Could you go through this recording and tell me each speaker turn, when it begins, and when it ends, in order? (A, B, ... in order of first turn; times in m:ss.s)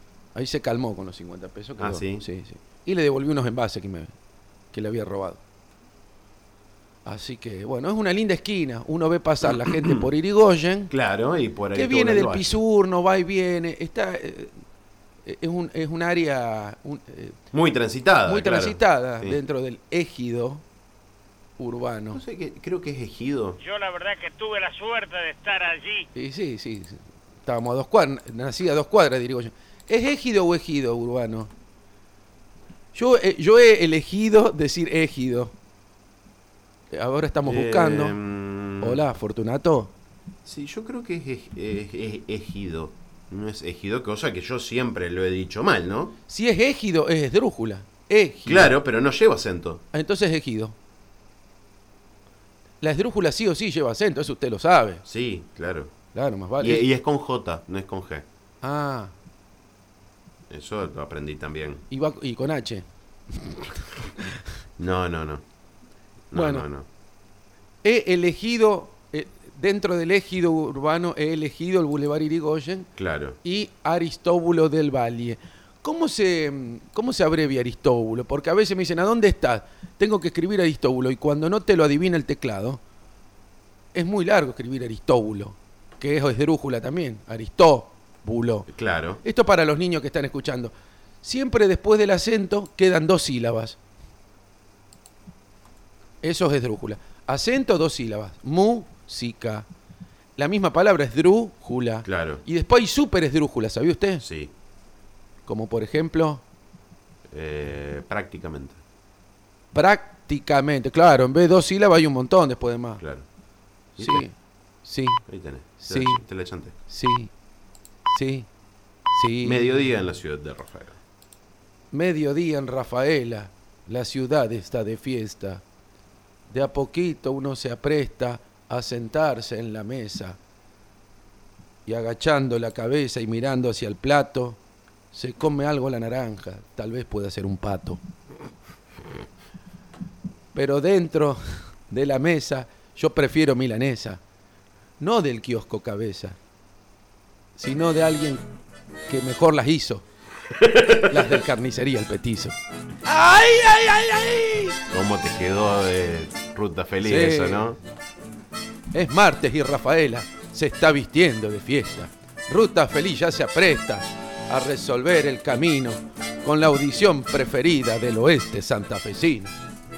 0:00.4-0:04.1 A
0:01.8-0:02.2 B
0:04.7-0:05.4 A
0:07.1-0:10.9 A
0:09.4-0:10.1 B
0:10.9-0:12.6 B
0:11.7-0:14.6 A
0:15.2-0:17.4 A
0:17.5-0:19.4 B
0:18.3-0:20.6 A
0:21.6-0:22.2 A
0:22.1-0:23.6 B
0:23.6-0:26.1 C
0:26.2-0:31.5 A
0:32.9-0:35.5 A
0:36.9-0:38.2 A
0:37.4-0:39.0 B
0:38.8-0:39.9 A
0:40.4-0:46.2 B
0:46.3-0:48.7 A
0:48.4-0:49.8 B
0:49.9-0:50.8 A
0:52.8-0:55.0 A
0:55.0-0:55.9 B
0:56.1-0:56.9 A
0:56.6-0:58.2 B
0:58.6-0:59.1 A
1:00.5-1:01.8 B
1:01.9-1:03.6 A
1:04.8-1:05.4 B
1:06.3-1:06.9 B
1:06.3-1:06.7 A
1:07.8-1:12.9 A
1:13.0-1:13.4 B
1:13.4-1:22.8 A
1:23.9-1:28.7 A
1:28.7-1:29.2 B
1:29.2-1:33.8 A
1:36.2-1:39.7 A
1:40.4-1:44.2 A
1:42.0-1:42.4 B
1:44.2-1:44.5 B
1:45.5-1:46.4 A
1:47.3-1:48.8 B
1:49.7-1:53.0 A
1:53.0-1:53.3 B
1:54.0-1:54.2 B
1:54.0-1:55.2 A
1:55.3-1:56.8 B
1:55.8-1:56.2 A
1:56.9-1:57.3 A
1:58.1-1:58.5 A
1:59.1-1:59.8 A
1:59.4-2:01.0 B
2:01.9-2:05.6 A
2:06.5-2:10.4 A
2:11.9-2:14.6 A
2:15.1-2:18.0 A
2:20.5-2:24.2 A
2:25.0-2:26.4 A
2:27.6-2:28.4 A
2:29.1-2:30.0 A
2:30.6-2:31.3 B
2:31.1-2:34.8 A
2:34.9-2:37.8 B
2:37.0-2:37.7 A
2:38.9-2:49.5 A